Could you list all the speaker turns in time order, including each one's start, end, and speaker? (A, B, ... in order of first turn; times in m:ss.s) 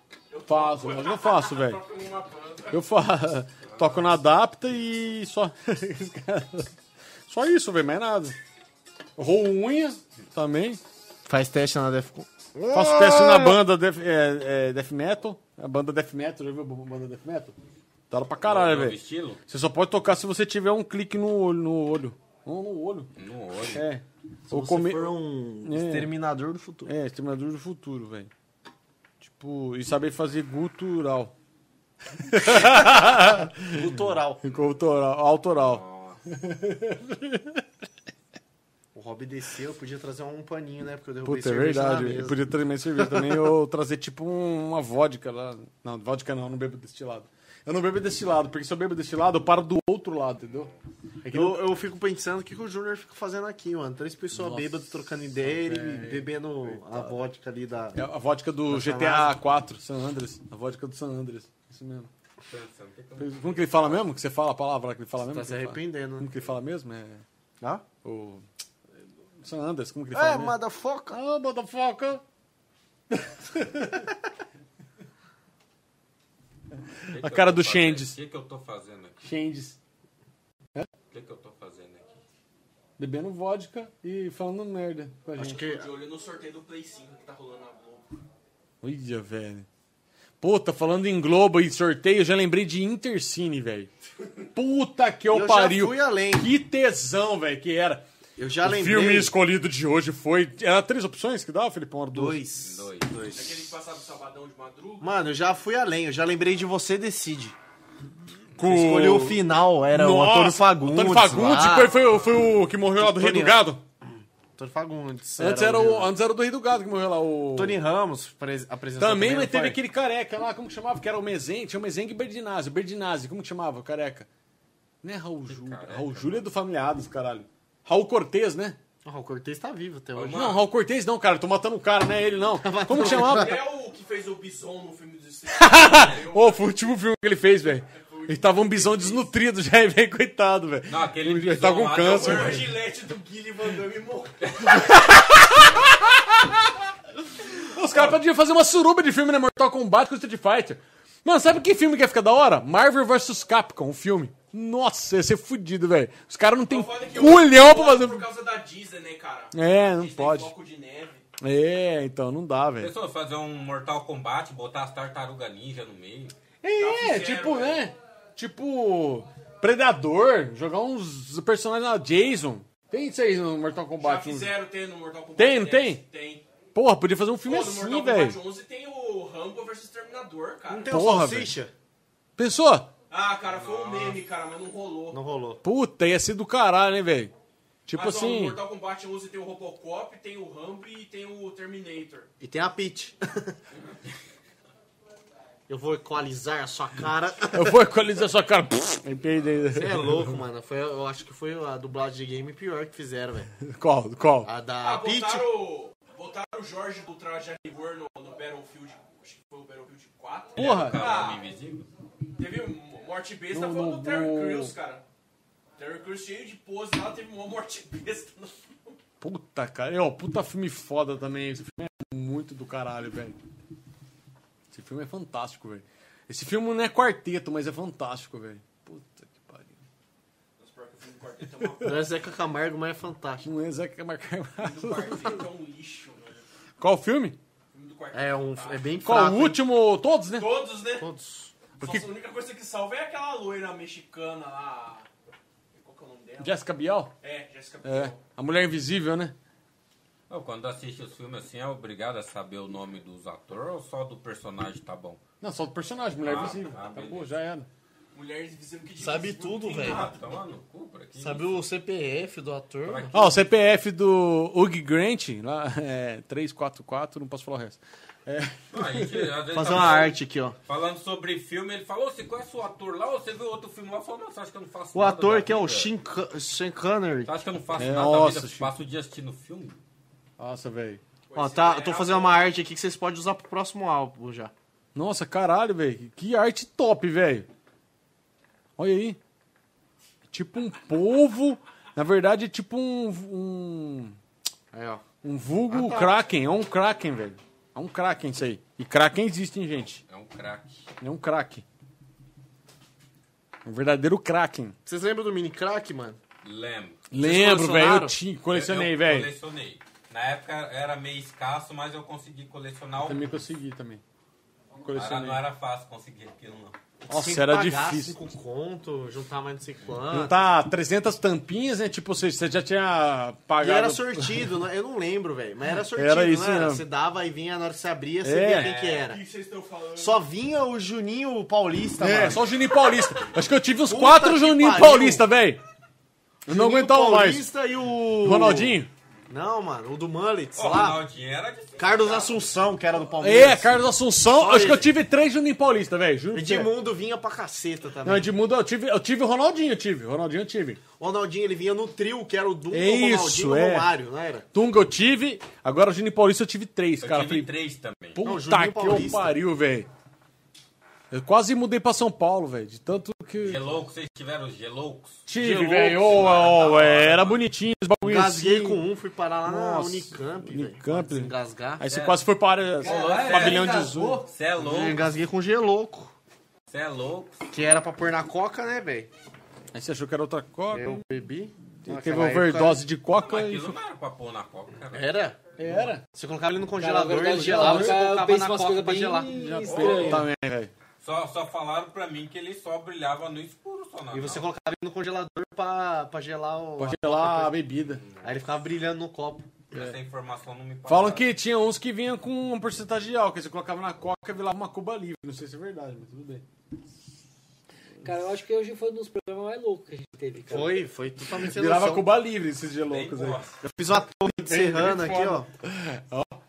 0:00.3-0:02.8 A
0:00.5-0:01.8 B
0:02.7-0:06.7 B
0:03.6-0:04.0 C
0:07.3-0:08.4 B
0:09.2-0:10.8 B
0:11.2-0:13.6 D
0:12.7-0:17.6 B
0:18.1-0:19.0 B
0:18.4-0:19.4 C
0:19.5-0:23.1 B
0:23.2-0:23.8 C
0:23.6-0:26.1 B
0:24.5-0:26.9 D
0:26.8-0:28.3 B
0:29.2-0:31.3 B
0:32.2-0:37.6 B
0:32.7-0:34.4 D
0:35.6-0:36.2 C
0:38.9-0:42.4 D
0:41.2-0:50.7 B
0:43.0-0:43.4 D
0:51.2-0:51.6 B
0:51.3-0:58.0 D
0:54.3-0:57.1 B
0:57.9-1:02.1 B
0:58.7-0:59.4 D
1:02.5-1:04.0 C
1:03.2-1:07.2 B
1:05.2-1:06.3 D
1:08.0-1:08.4 B
1:09.4-1:10.6 B
1:10.1-1:11.2 D
1:11.1-1:12.2 B
1:13.1-1:14.1 B
1:17.0-1:18.2 B
1:17.1-1:19.2 C
1:19.2-1:19.8 B
1:21.1-1:22.1 C
1:23.0-1:25.6 B
1:25.4-1:25.9 D
1:25.4-1:28.2 A
1:28.8-1:29.6 B
1:30.4-1:33.9 B
1:34.5-1:38.0 B
1:35.3-1:36.5 D
1:38.4-1:39.3 D
1:38.6-1:42.4 B
1:42.1-1:43.6 D
1:42.6-1:43.1 C
1:43.3-1:45.1 A
1:45.0-1:47.5 D
1:48.6-1:53.8 B
1:48.6-1:52.1 D
1:53.0-1:53.6 D
1:54.6-1:56.1 D
1:55.4-1:57.8 B
1:57.5-1:59.8 D
1:59.0-2:04.3 B
2:05.0-2:08.8 B
2:05.5-2:06.4 C
2:09.0-2:10.5 D
2:10.1-2:10.6 C
2:10.3-2:13.6 B
2:12.6-2:13.6 D
2:12.9-2:16.6 A
2:15.5-2:22.7 B
2:15.9-2:16.2 C
2:17.9-2:19.3 A
2:20.9-2:22.7 C
2:21.9-2:24.7 A
2:24.5-2:24.8 C
2:24.6-2:26.7 B
2:27.5-2:38.2 B
2:36.7-2:41.3 A
2:39.5-2:40.5 B
2:41.4-2:42.9 B
2:42.8-2:46.3 C
2:46.6-2:54.5 B
2:46.8-2:47.9 A
2:54.0-2:56.4 A
2:55.4-2:56.0 B
2:56.7-2:58.4 B
2:57.4-3:01.0 A
3:00.7-3:01.7 D
3:00.9-3:01.6 B
3:02.4-3:02.9 B
3:03.1-3:05.2 A
3:03.4-3:04.2 C
3:05.1-3:05.6 D
3:05.6-3:07.3 B
3:07.9-3:08.6 B
3:07.9-3:12.3 A
3:12.4-3:13.6 D
3:15.7-3:17.8 D
3:17.5-3:20.4 B
3:19.7-3:23.5 D
3:23.6-3:24.5 B
3:24.4-3:25.5 D
3:24.8-3:31.4 A
3:30.6-3:31.2 B
3:30.6-3:31.9 C
3:32.4-3:35.0 A
3:33.5-3:34.7 B
3:35.8-3:39.0 A
3:39.2-3:43.4 B
3:44.7-3:49.8 B
3:50.6-3:52.1 A
3:51.6-3:52.0 B
3:51.8-3:53.5 D
3:53.4-3:55.4 B
3:54.6-3:56.4 A
3:56.8-3:57.4 B
3:57.7-3:59.0 A
3:58.1-3:59.6 D
3:59.0-4:00.5 B
4:00.3-4:01.1 A
4:00.8-4:01.5 D
4:01.8-4:05.1 A
4:01.8-4:02.1 B
4:05.7-4:06.6 A
4:06.4-4:07.1 B
4:07.2-4:08.2 A
4:07.8-4:09.3 B
4:10.3-4:15.2 C
4:15.4-4:17.7 B
4:16.2-4:17.3 C
4:18.1-4:20.1 A
4:19.0-4:20.0 D
4:19.8-4:21.7 C
4:21.2-4:23.1 D
4:22.8-4:23.4 C
4:23.1-4:29.3 B
4:28.7-4:35.9 C
4:29.5-4:30.6 D
4:34.9-4:37.3 D
4:37.2-4:39.8 C
4:37.8-4:38.7 B
4:40.4-4:41.0 B
4:41.3-4:42.5 A
4:41.3-4:44.5 D
4:44.9-4:47.5 B
4:48.8-4:49.2 B
4:50.3-4:54.2 B
4:54.7-4:55.0 D
4:55.2-5:00.0 B
4:55.7-4:56.1 D
5:00.0-5:00.8 C
5:01.0-5:01.6 B
5:03.6-5:04.7 B
5:04.8-5:06.2 D
5:06.4-5:07.0 C
5:07.1-5:09.3 B
5:07.2-5:08.2 D
5:08.5-5:13.5 C
5:13.0-5:14.0 B
5:14.8-5:15.4 B
5:14.9-5:16.7 C
5:17.1-5:20.4 D
5:17.1-5:18.2 B
5:20.1-5:24.5 B
5:23.6-5:29.2 D
5:25.9-5:26.8 B
5:28.2-5:28.7 B
5:28.5-5:29.1 C
5:28.9-5:30.2 A
5:30.0-5:32.4 D
5:32.0-5:35.6 B
5:33.8-5:35.2 D
5:36.4-5:37.5 B
5:36.4-5:41.0 D
5:38.2-5:38.9 B
5:40.6-5:42.4 C
5:41.8-5:43.7 D
5:43.2-5:46.7 B
5:44.3-5:44.9 D
5:46.3-5:48.3 D
5:48.0-5:50.8 B
5:51.0-5:54.4 D
5:52.7-5:53.9 B
5:54.5-5:57.5 B
5:57.0-5:58.2 C
5:58.1-5:59.9 B
5:58.2-5:59.4 D
6:01.1-6:03.7 B
6:03.4-6:05.2 C
6:05.3-6:08.8 B
6:05.4-6:06.2 D
6:06.0-6:07.4 C
6:08.0-6:11.8 D
6:09.4-6:14.2 B
6:11.9-6:12.2 C
6:12.8-6:14.3 A
6:12.8-6:13.2 E
6:12.9-6:15.0 C
6:14.6-6:16.1 D
6:16.7-6:17.5 C
6:17.5-6:19.1 D
6:19.7-6:21.0 B
6:20.7-6:22.8 D
6:21.8-6:23.7 B
6:23.2-6:25.2 C
6:24.9-6:30.1 D
6:25.6-6:26.0 B
6:26.8-6:30.2 E
6:27.4-6:28.0 B
6:29.3-6:30.7 B
6:29.6-6:30.2 C
6:31.0-6:34.4 C
6:34.1-6:37.5 D
6:36.8-6:38.0 B
6:38.0-6:38.3 C
6:38.2-6:39.5 D
6:39.7-6:41.3 C
6:40.9-6:46.4 B
6:48.0-6:50.8 E
6:50.5-6:52.1 D
6:51.4-6:53.4 B
6:52.9-6:53.6 C
6:53.6-6:55.5 D
6:54.2-6:56.4 B